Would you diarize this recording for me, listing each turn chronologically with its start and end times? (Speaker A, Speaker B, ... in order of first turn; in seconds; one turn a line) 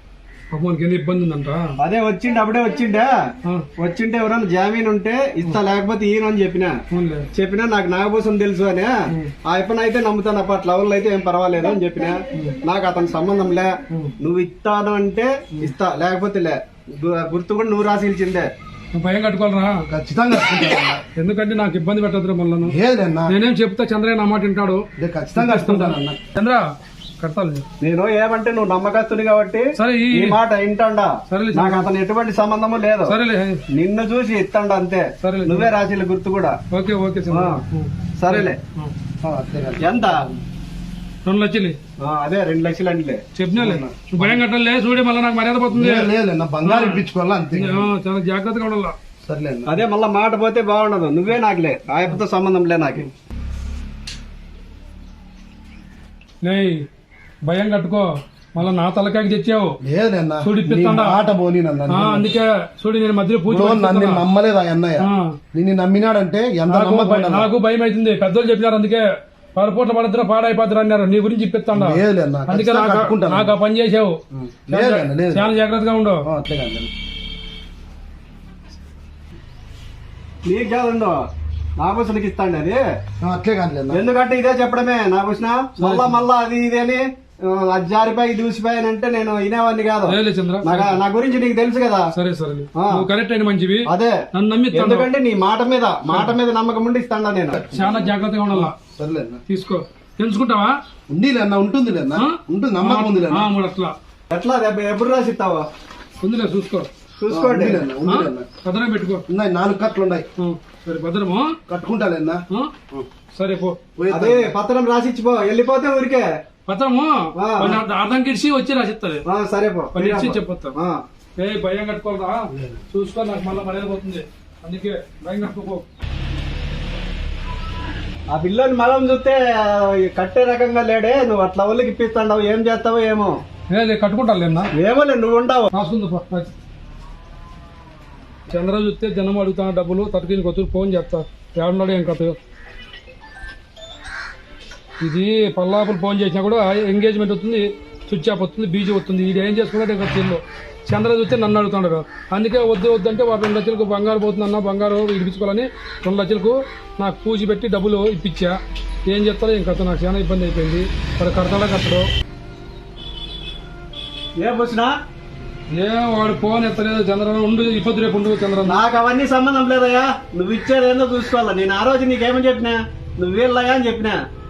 Speaker A: 0.5-1.6
Speaker B: 1.8-3.1
Speaker B: 3.8-6.8
Speaker A: 6.9-7.3
Speaker B: 7.3-18.5
Speaker A: 18.9-19.8
Speaker C: 19.9-21.0
Speaker A: 21.1-22.8
Speaker C: 22.6-23.3
Speaker A: 23.3-24.8
Speaker C: 25.0-26.2
Speaker A: 25.4-26.6
Speaker A: 27.2-27.6
Speaker B: 27.8-33.1
Speaker A: 29.8-30.4
Speaker A: 31.3-31.9
Speaker A: 33.1-33.6
Speaker B: 33.7-36.5
Speaker A: 35.2-35.7
Speaker A: 36.7-38.9
Speaker B: 37.3-37.6
Speaker B: 38.2-38.6
Speaker C: 39.2-40.4
Speaker B: 39.8-40.3
Speaker A: 41.2-41.8
Speaker B: 42.0-43.2
Speaker A: 43.4-46.1
Speaker C: 43.5-44.4
Speaker C: 45.7-47.9
Speaker A: 46.6-48.9
Speaker C: 49.2-49.8
Speaker B: 49.7-53.1
Speaker A: 56.4-56.8
Speaker A: 57.5-59.8
Speaker C: 59.8-62.3
Speaker A: 60.4-61.2
Speaker A: 61.9-64.2
Speaker C: 63.5-67.5
Speaker A: 65.0-65.3
Speaker A: 66.7-69.0
Speaker A: 69.5-74.2
Speaker C: 71.7-73.5
Speaker C: 74.3-75.5
Speaker A: 74.7-76.3
Speaker C: 76.2-76.9
Speaker B: 80.5-81.2
Speaker B: 81.8-82.8
Speaker C: 83.2-84.0
Speaker B: 83.9-92.1
Speaker A: 85.8-86.2
Speaker A: 90.1-91.0
Speaker A: 92.1-95.1
Speaker B: 92.8-93.0
Speaker B: 93.9-94.2
Speaker B: 94.7-98.0
Speaker A: 96.1-96.3
Speaker A: 97.7-98.7
Speaker C: 98.5-99.4
Speaker A: 99.5-100.7
Speaker C: 101.1-103.5
Speaker A: 102.1-103.9
Speaker B: 104.3-105.7
Speaker A: 106.2-106.9
Speaker B: 107.2-107.9
Speaker C: 107.3-108.5
Speaker A: 108.0-109.2
Speaker C: 109.3-110.3
Speaker A: 110.4-111.5
Speaker C: 111.7-113.1
Speaker A: 113.3-113.8
Speaker C: 114.0-114.5
Speaker B: 114.1-116.3
Speaker A: 116.7-119.2
Speaker B: 117.4-117.8
Speaker B: 119.3-121.0
Speaker A: 119.9-120.8
Speaker A: 121.4-125.8
Speaker C: 122.5-122.8
Speaker B: 128.3-133.3
Speaker A: 133.7-134.7
Speaker B: 134.8-135.7
Speaker A: 135.7-136.5
Speaker A: 138.5-142.4
Speaker A: 145.0-162.1
Speaker B: 164.4-164.9
Speaker A: 165.7-168.8
Speaker B: 168.7-174.2